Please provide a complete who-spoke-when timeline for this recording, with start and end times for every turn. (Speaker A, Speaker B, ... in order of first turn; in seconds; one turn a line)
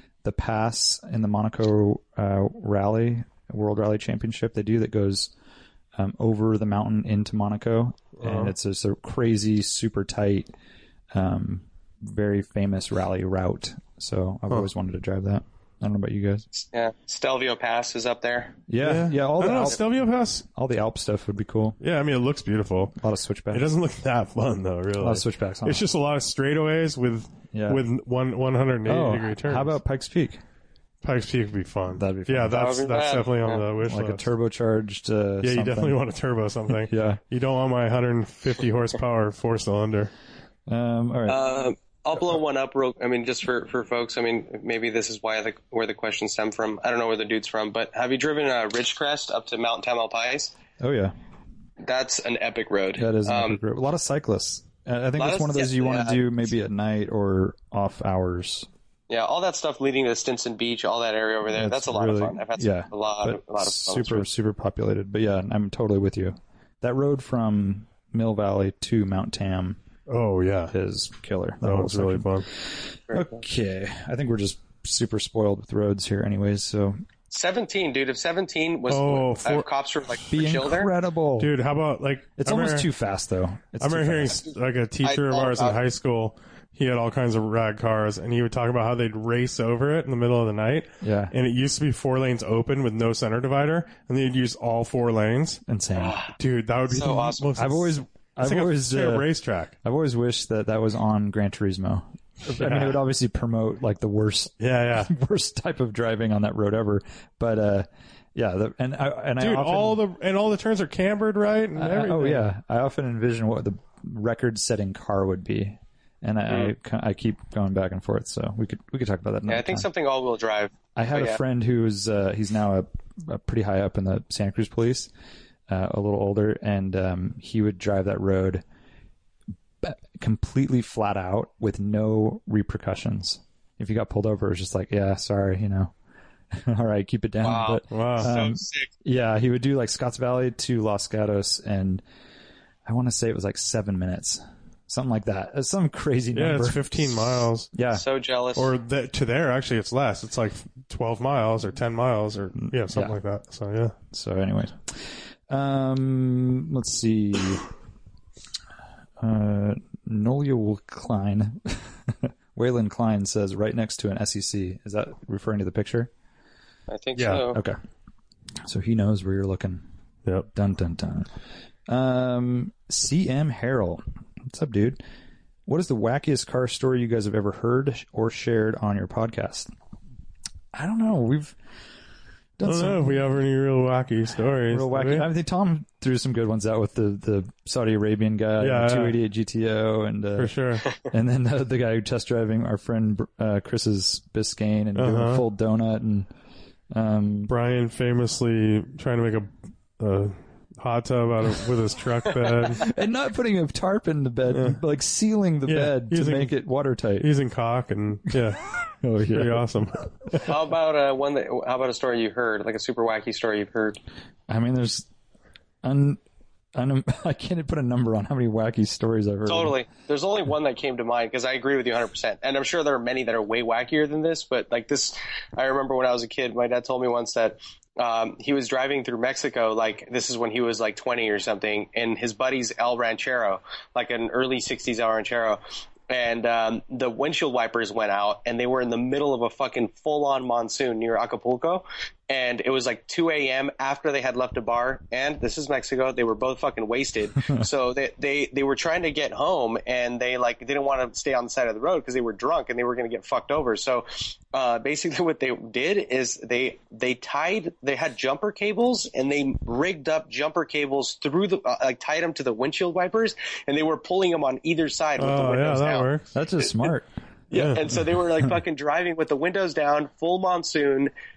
Speaker A: 0.2-5.3
Speaker A: 6.0-10.5
Speaker B: 8.2-8.5
Speaker A: 11.1-16.4
Speaker C: 16.5-18.6
Speaker A: 18.7-19.8
Speaker B: 18.8-20.4
Speaker A: 20.5-21.8
Speaker B: 21.8-22.9
Speaker A: 23.0-23.7
Speaker B: 23.5-29.8
Speaker A: 25.0-25.8
Speaker A: 27.5-27.8
Speaker A: 28.8-30.4
Speaker B: 31.0-34.2
Speaker A: 31.9-32.7
Speaker C: 32.5-33.6
Speaker A: 33.8-36.0
Speaker B: 35.4-40.1
Speaker A: 36.8-37.2
Speaker A: 40.7-41.4
Speaker C: 41.3-50.5
Speaker A: 50.8-51.1
Speaker C: 51.8-53.6
Speaker A: 53.0-58.7
Speaker C: 55.2-56.2
Speaker C: 59.1-64.3
Speaker A: 61.5-69.8
Speaker B: 70.1-70.7
Speaker A: 70.7-72.3
Speaker B: 71.6-72.5
Speaker A: 73.1-77.0
Speaker C: 77.3-80.9
Speaker B: 78.9-79.7
Speaker A: 80.3-81.5
Speaker B: 81.4-82.9
Speaker A: 82.4-84.4
Speaker B: 83.8-95.6
Speaker C: 85.0-85.8
Speaker A: 91.0-91.3
Speaker A: 95.7-96.2
Speaker C: 96.0-96.3
Speaker B: 96.4-99.7
Speaker C: 96.9-97.5
Speaker A: 97.5-99.3
Speaker A: 99.8-110.0
Speaker B: 102.5-103.0
Speaker B: 104.6-105.1
Speaker B: 109.4-112.5
Speaker A: 111.8-119.9
Speaker C: 116.5-116.7
Speaker C: 119.5-121.4
Speaker A: 121.0-125.1
Speaker A: 125.7-128.6
Speaker A: 129.8-135.9
Speaker A: 136.5-142.0
Speaker C: 137.4-138.9
Speaker B: 137.9-138.3
Speaker A: 142.8-148.0
Speaker B: 146.3-147.7
Speaker C: 147.9-148.7
Speaker B: 148.6-153.9
Speaker A: 152.9-153.2
Speaker A: 154.1-157.7
Speaker A: 159.2-166.1
Speaker C: 166.9-167.6
Speaker B: 167.2-167.4
Speaker A: 167.5-167.8
Speaker A: 168.6-169.8
Speaker A: 170.5-171.3
Speaker A: 171.9-175.0
Speaker A: 175.7-179.7
Speaker A: 180.7-181.6
Speaker A: 182.6-183.2
Speaker B: 182.6-185.3
Speaker A: 184.7-196.3
Speaker B: 188.6-189.2
Speaker B: 190.4-190.9
Speaker B: 194.9-195.4
Speaker A: 196.9-197.5
Speaker B: 197.5-202.9
Speaker A: 202.7-207.3
Speaker B: 204.5-204.8
Speaker B: 205.7-206.6
Speaker B: 207.2-208.6
Speaker A: 209.0-209.7
Speaker B: 209.2-210.5
Speaker C: 210.4-214.0
Speaker A: 214.5-215.1
Speaker A: 215.8-216.2
Speaker A: 216.7-219.8
Speaker C: 219.4-266.1
Speaker B: 265.2-266.3
Speaker A: 266.3-267.1
Speaker C: 267.5-271.1
Speaker B: 267.5-267.8